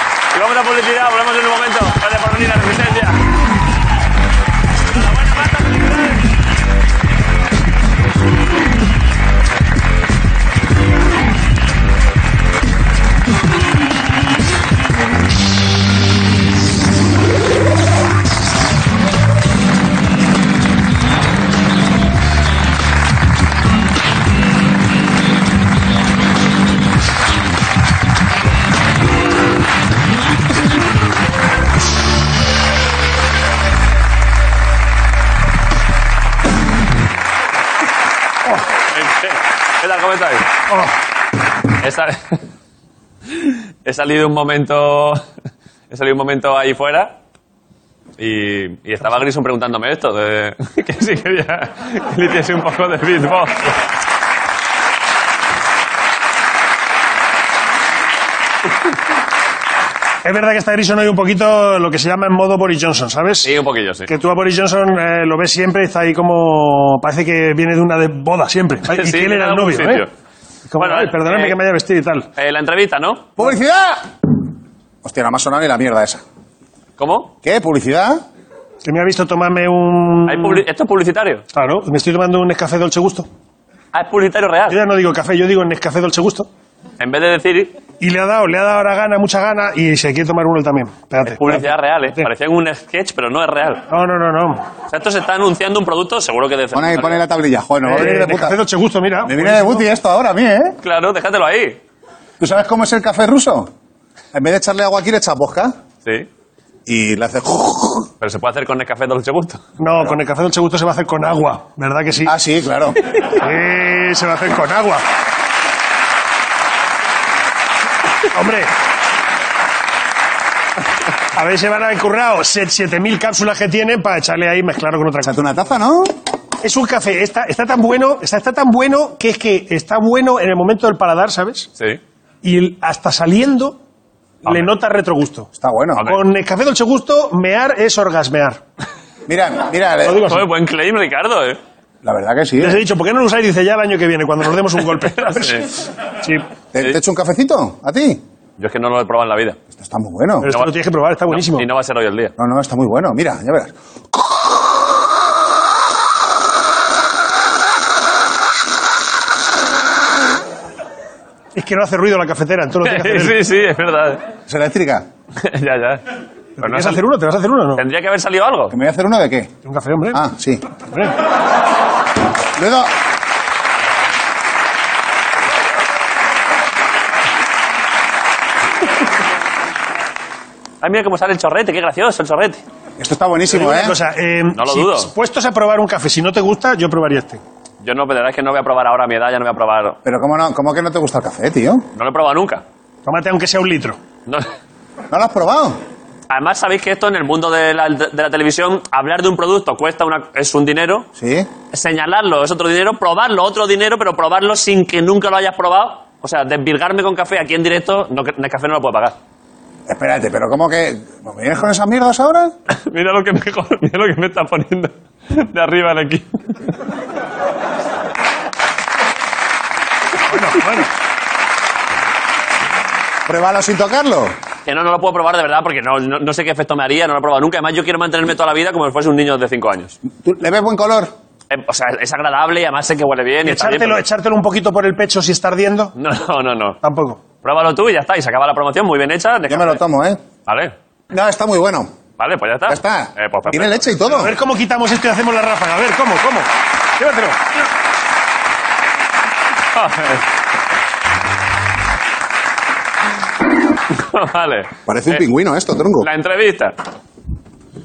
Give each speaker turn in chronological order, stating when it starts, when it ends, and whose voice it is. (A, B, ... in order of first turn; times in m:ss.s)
0:00.3-0:03.2 A
0:04.9-0:06.2 A
0:38.9-0:40.5 A
0:41.8-0:42.4 A
0:43.4-0:45.2 A
0:45.9-0:47.1 A
0:48.2-0:53.7 A
1:00.2-1:03.5 B
1:03.4-1:04.1 A
1:04.1-1:10.0 B
1:08.9-1:10.1 A
1:10.7-1:12.3 B
1:10.8-1:11.6 A
1:12.4-1:13.3 A
1:13.4-1:14.1 C
1:15.0-1:16.2 C
1:17.0-1:17.3 A
1:17.4-1:18.2 C
1:18.8-1:20.6 B
1:20.2-1:21.4 A
1:21.5-1:23.3 B
1:23.9-1:24.8 A
1:24.7-1:26.5 B
1:27.0-1:27.7 A
1:28.0-1:32.3 B
1:31.2-1:33.8 A
1:33.9-1:34.6 B
1:34.9-1:37.2 A
1:36.7-1:38.6 C
1:37.8-1:39.9 B
1:39.2-1:40.8 C
1:40.8-1:41.8 A
1:42.4-1:43.7 C
1:44.3-1:45.7 C
1:46.8-1:48.1 C
1:48.2-1:49.6 A
1:49.8-1:52.3 B
1:52.2-1:53.0 C
1:53.4-1:55.0 B
1:58.3-1:58.7 B
2:01.3-2:05.6 B
2:05.2-2:06.1 C
2:06.6-2:11.7 B
2:12.4-2:13.8 B
2:14.4-2:15.5 B
2:15.6-2:16.1 C
2:16.0-2:18.6 B
2:19.3-2:20.3 C
2:20.0-2:20.4 B
2:20.3-2:21.6 A
2:22.0-2:22.8 C
2:22.6-2:26.4 B
2:25.4-2:25.7 A
2:26.7-2:28.2 C
2:28.6-2:29.6 A
2:29.8-2:30.5 C
2:30.4-2:31.7 B
2:31.3-2:32.3 A
2:32.4-2:34.5 C
2:41.5-2:43.4 B
2:42.8-2:44.2 A
2:44.5-2:45.0 C
2:45.4-2:46.0 A
2:46.6-2:47.8 B
2:46.6-2:47.0 A
2:47.8-2:48.7 A
2:48.7-2:49.5 C
2:49.6-2:50.2 B
2:50.1-2:50.6 C
2:50.8-2:51.2 B
2:52.6-2:52.9 C
3:00.8-3:02.6 A
3:03.0-3:04.0 C
3:03.5-3:07.4 B
3:04.5-3:05.1 A
3:07.8-3:10.0 A
3:10.0-3:11.8 C
3:11.9-3:12.6 A
3:13.0-3:14.0 B
3:15.1-3:15.8 C
3:16.3-3:21.1 A
3:21.2-3:21.5 C
3:21.7-3:29.2 A
3:29.9-3:32.5 C
3:32.7-3:36.7 A
3:40.3-3:40.9 B
3:43.3-3:44.3 C
3:44.6-3:50.0 A
3:50.2-3:51.1 C
3:51.5-3:54.0 A
3:53.4-3:55.9 B
3:56.0-3:56.8 A
3:56.8-3:57.2 B
3:57.4-3:59.8 A
3:59.5-4:00.2 C
4:00.4-4:00.7 A
4:01.1-4:01.9 C
4:02.2-4:04.2 A
4:02.7-4:04.3 C
4:04.1-4:07.4 B
4:09.7-4:10.2 A
4:13.9-4:15.2 A
4:14.9-4:16.1 C
4:16.0-4:16.8 A